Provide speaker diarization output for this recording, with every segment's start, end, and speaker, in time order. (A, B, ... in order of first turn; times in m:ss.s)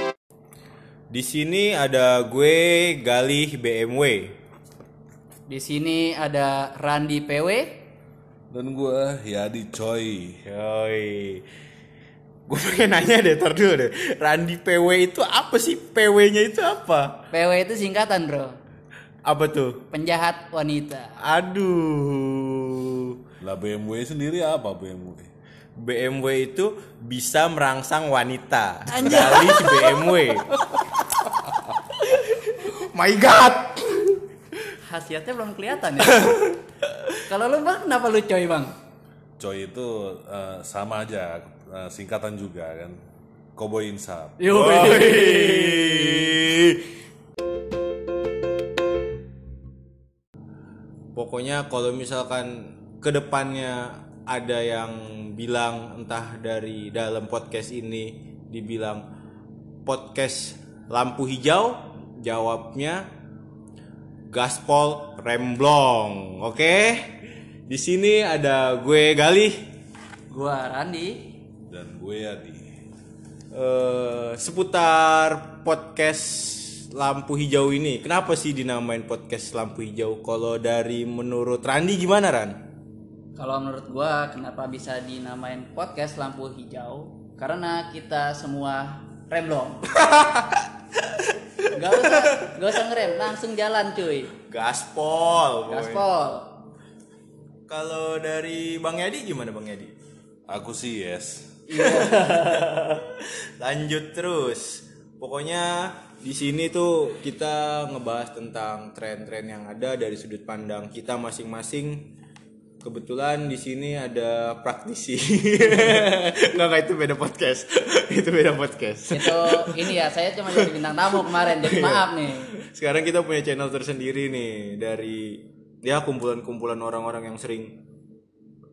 0:01.1-0:04.4 A
0:05.5-0:07.8 B
0:08.5-0:10.4 C
0:10.4-0:11.5 A
0:12.5-0:17.3 A
0:17.3-0:18.6 B
0:19.2-0:19.8 A
0:19.9-0:21.1 B
0:21.2-0:23.2 A
0:23.4-0:25.3 C
0:25.8-0:30.5 A
0:28.9-0:30.8 B
0:32.6-0:34.0 A
0:34.8-0:36.5 B
0:37.3-0:38.7 B
0:39.4-0:43.0 C
0:43.6-0:44.4 C
0:44.4-0:46.4 B
0:44.5-0:46.7 A
0:51.1-0:59.0 A
0:59.8-1:03.1 A
1:04.3-1:09.7 A
1:10.3-1:11.3 B
1:11.7-1:12.7 C
1:13.5-1:22.6 A
1:23.4-1:29.8 B
1:29.9-1:32.6 A
1:31.7-1:34.3 B
1:34.4-1:36.0 A
1:35.7-1:36.6 B
1:37.7-1:39.9 A
1:40.5-1:41.6 C
1:41.7-1:52.2 A
1:41.8-1:42.6 B
1:52.8-1:59.9 A
1:59.1-2:02.5 B
2:00.5-2:07.8 A